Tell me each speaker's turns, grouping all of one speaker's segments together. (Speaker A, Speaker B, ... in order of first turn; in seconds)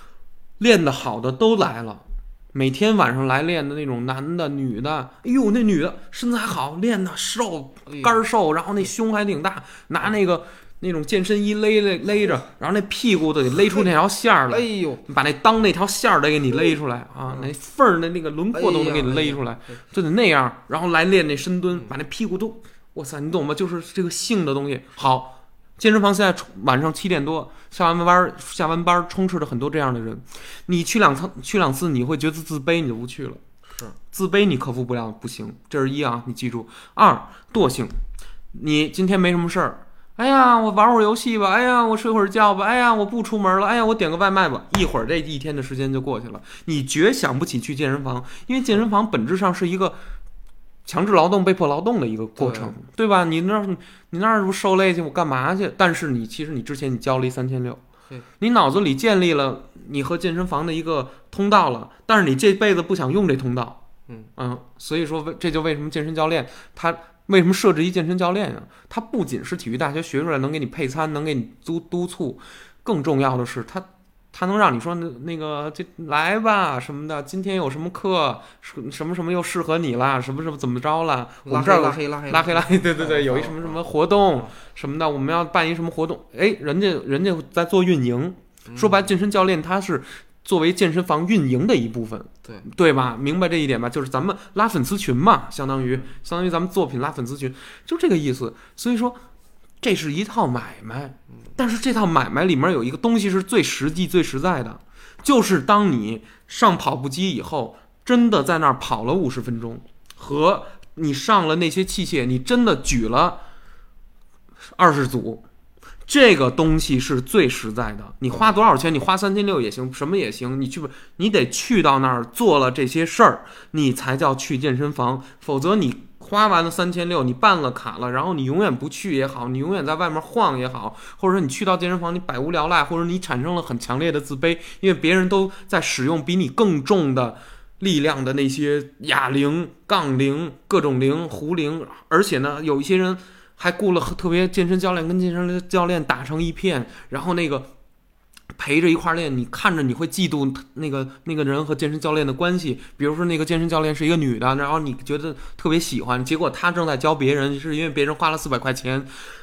Speaker A: 0.6-33.4, 34.1-38.0, 38.5-50.0, 50.9-57.8, 58.4-63.8, 64.4-99.2, 99.8-113.4, 114.7-115.4, 116.1-147.7, 148.6-159.1
Speaker B: 7.9-8.2, 14.5-15.0, 18.5-19.4, 33.7-34.0, 52.4-52.8, 81.5-83.8, 88.7-89.1, 118.3-118.6